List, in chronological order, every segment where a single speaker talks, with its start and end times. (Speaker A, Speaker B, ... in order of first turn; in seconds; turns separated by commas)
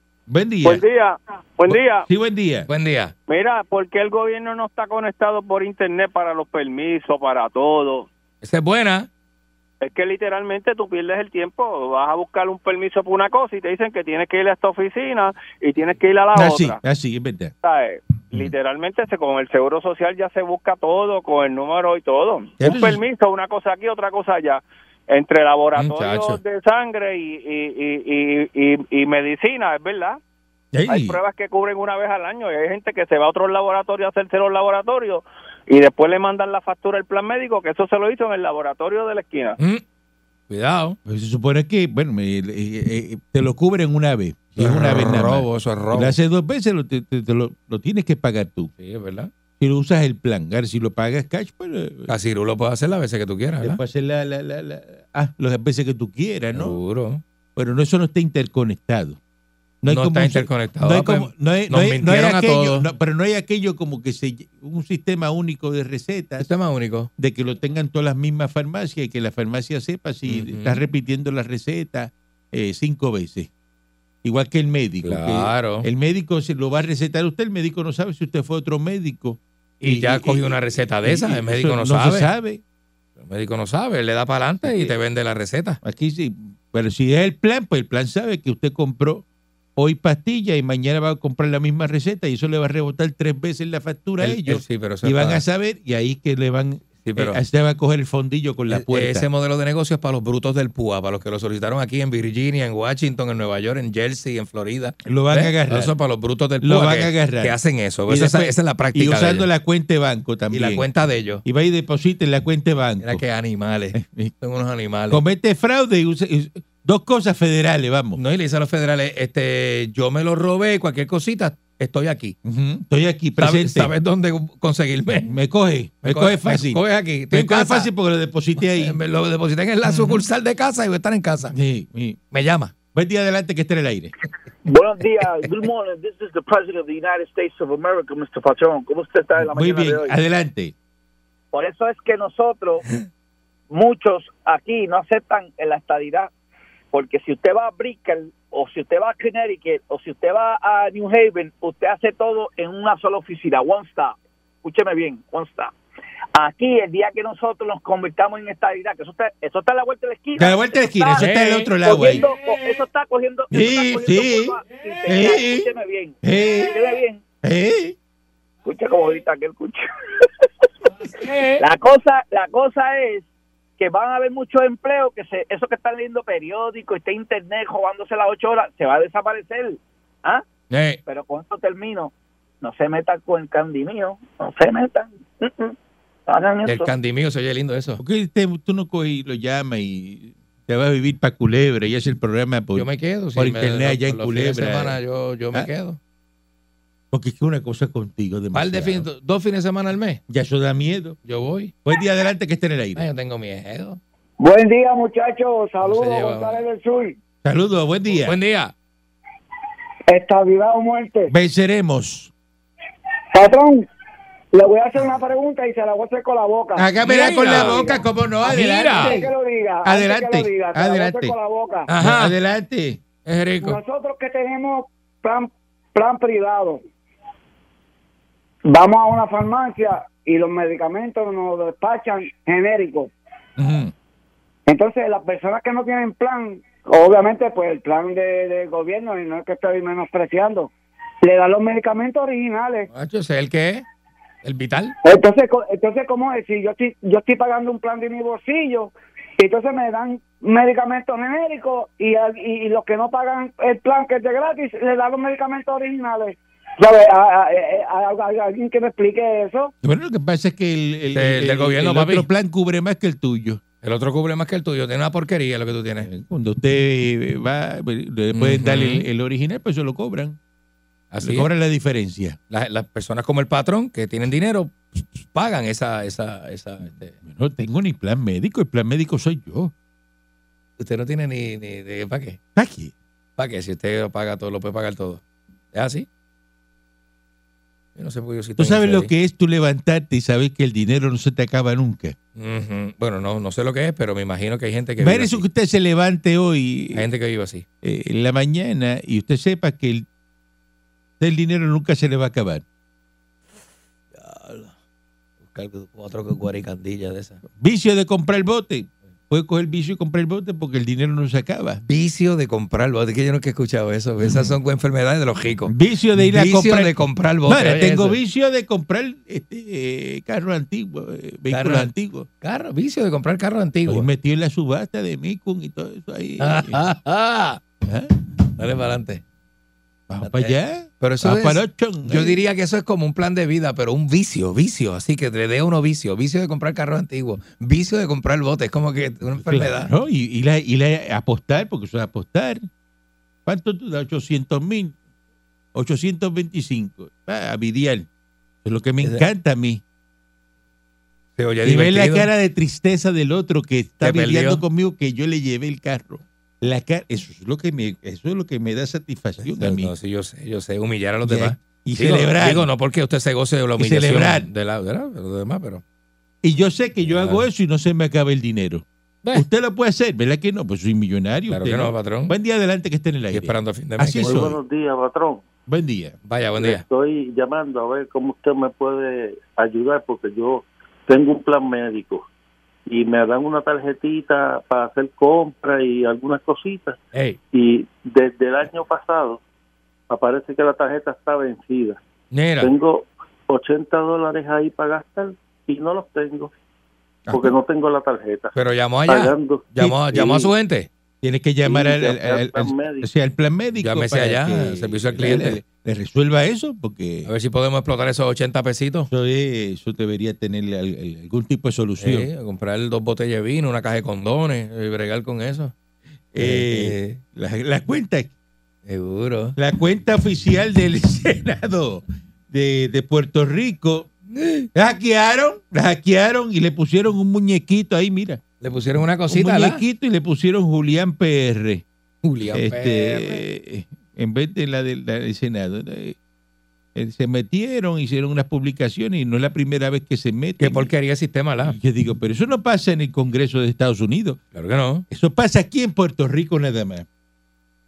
Speaker A: 0.3-0.8, Speaker B: 0.6-2.1, Speaker A: 1.7-2.7, Speaker C: 2.7-3.1, Speaker B: 3.3-8.1, Speaker C: 8.4-9.1, Speaker B: 9.8-16.8, Speaker A: 16.3-17.5, Speaker B: 17.6-30.2, Speaker A: 22.6-23.0, Speaker C: 25.8-26.4, Speaker A: 30.7-31.2, Speaker B: 30.9-39.6, Speaker C: 40.5-41.0, Speaker A: 41.1-48.7, Speaker C: 44.6-46.2, Speaker C: 48.8-49.3, Speaker A: 49.6-52.1, Speaker C: 52.1-53.8, Speaker A: 53.6-56.8, Speaker C: 56.5-57.2, Speaker A: 57.6-59.2, Speaker A: 59.8-66.5, Speaker C: 59.9-62.9, Speaker C: 66.4-67.1, Speaker A: 67.2-73.5, Speaker C: 70.3-70.8, Speaker A: 74.2-82.6, Speaker C: 75.0-75.9, Speaker C: 79.8-82.3, Speaker C: 83.2-85.8, Speaker A: 84.6-85.0, Speaker A: 85.8-89.2, Speaker A: 89.8-99.3, Speaker C: 94.2-95.4, Speaker C: 97.0-97.4, Speaker C: 98.7-109.5, Speaker A: 105.0-106.0, Speaker A: 106.6-110.9, Speaker C: 110.5-111.4, Speaker A: 111.4-113.2, Speaker C: 113.0-115.2, Speaker A: 113.9-114.3, Speaker A: 115.1-118.2, Speaker C: 118.2-122.4, Speaker A: 122.5-123.9, Speaker C: 123.4-125.3, Speaker A: 125.2-129.0, Speaker C: 126.0-127.9, Speaker C: 128.6-131.6, Speaker A: 129.8-130.2, Speaker A: 131.5-132.2, Speaker C: 132.3-132.7, Speaker A: 132.9-134.1, Speaker D: 134.7-140.2, Speaker A: 139.4-140.7, Speaker D: 141.5-142.8, Speaker D: 143.7-146.3, Speaker D: 146.9-155.7, Speaker D: 156.3-167.2, Speaker A: 160.4-162.2, Speaker C: 161.2-162.3, Speaker A: 163.5-165.7, Speaker A: 166.2-166.8, Speaker A: 167.4-167.9, Speaker D: 168.7-169.8, Speaker C: 171.1-171.6, Speaker D: 171.6-173.3, Speaker D: 173.8-180.4, Speaker C: 180.7-181.0, Speaker D: 181.1-185.8, Speaker D: 186.3-186.9, Speaker C: 186.7-188.0, Speaker A: 188.0-195.0, Speaker C: 192.8-196.0, Speaker A: 197.1-199.1, Speaker C: 198.5-200.2, Speaker A: 200.3-201.2, Speaker C: 201.2-201.7, Speaker A: 201.8-203.1, Speaker C: 203.0-204.0, Speaker E: 204.4-207.2, Speaker C: 205.8-206.7, Speaker A: 207.4-208.4, Speaker C: 208.2-208.7, Speaker E: 210.1-211.3, Speaker A: 211.3-212.3, Speaker E: 213.3-213.9, Speaker E: 214.5-221.9, Speaker A: 216.8-219.3, Speaker C: 217.0-217.9, Speaker C: 218.4-219.2, Speaker A: 219.8-221.3, Speaker C: 221.9-222.3, Speaker A: 222.0-223.0, Speaker C: 223.3-223.8, Speaker E: 223.6-226.8, Speaker E: 228.7-233.1, Speaker A: 233.6-233.9, Speaker E: 234.7-240.7, Speaker E: 241.2-242.9, Speaker C: 242.9-243.8, Speaker C: 244.4-244.9, Speaker E: 245.0-259.7, Speaker A: 259.8-263.6, Speaker C: 261.1-262.3, Speaker C: 263.8-266.1, Speaker A: 266.0-270.4, Speaker C: 268.3-269.1, Speaker C: 271.1-271.5, Speaker A: 271.2-272.4, Speaker C: 272.5-277.2, Speaker A: 277.2-279.7, Speaker C: 280.8-282.4, Speaker A: 282.6-282.9, Speaker C: 283.4-285.2, Speaker C: 285.7-286.1, Speaker C: 288.0-289.1, Speaker A: 288.6-292.2, Speaker C: 292.4-295.4, Speaker A: 295.0-297.1, Speaker C: 296.9-297.6, Speaker A: 297.8-300.1, Speaker A: 301.2-302.6, Speaker C: 304.2-304.7, Speaker C: 305.5-307.4, Speaker A: 307.6-311.8, Speaker C: 311.9-318.2, Speaker A: 314.2-314.5, Speaker A: 315.7-322.3, Speaker C: 321.5-321.9, Speaker C: 322.4-324.1, Speaker A: 323.9-326.8, Speaker C: 326.4-327.6, Speaker A: 327.9-328.1, Speaker C: 328.6-329.2, Speaker A: 330.1-332.4, Speaker C: 330.2-339.9, Speaker A: 339.4-342.7, Speaker A: 343.5-345.0, Speaker A: 345.7-348.1, Speaker A: 348.6-349.8, Speaker C: 351.4-352.3, Speaker A: 351.6-359.9, Speaker C: 354.0-354.6, Speaker C: 359.4-365.8, Speaker A: 361.2-362.7, Speaker A: 363.8-364.5, Speaker A: 366.4-374.6, Speaker C: 367.0-367.5, Speaker C: 371.5-372.4, Speaker C: 373.3-374.5, Speaker F: 374.2-375.5, Speaker A: 375.7-376.2, Speaker C: 376.3-376.8, Speaker F: 376.6-382.2, Speaker F: 382.9-387.0, Speaker C: 387.1-387.4, Speaker F: 387.5-389.4, Speaker F: 390.1-392.0, Speaker C: 392.3-392.7, Speaker F: 392.6-396.5, Speaker F: 397.3-398.6, Speaker C: 398.5-400.9, Speaker F: 399.1-400.5, Speaker A: 401.2-407.3, Speaker F: 401.6-403.1, Speaker C: 403.8-405.6, Speaker C: 407.3-409.1, Speaker A: 409.1-412.3, Speaker C: 412.0-415.7, Speaker A: 416.3-418.3, Speaker C: 416.4-417.2, Speaker C: 418.9-419.6, Speaker A: 419.6-424.1, Speaker C: 424.3-424.7, Speaker A: 424.7-428.4, Speaker C: 428.6-429.8, Speaker A: 429.3-431.8, Speaker C: 432.2-433.4, Speaker A: 432.5-436.2, Speaker A: 436.9-440.9, Speaker C: 440.6-441.8, Speaker A: 441.6-444.4, Speaker C: 444.5-445.1, Speaker A: 445.1-447.1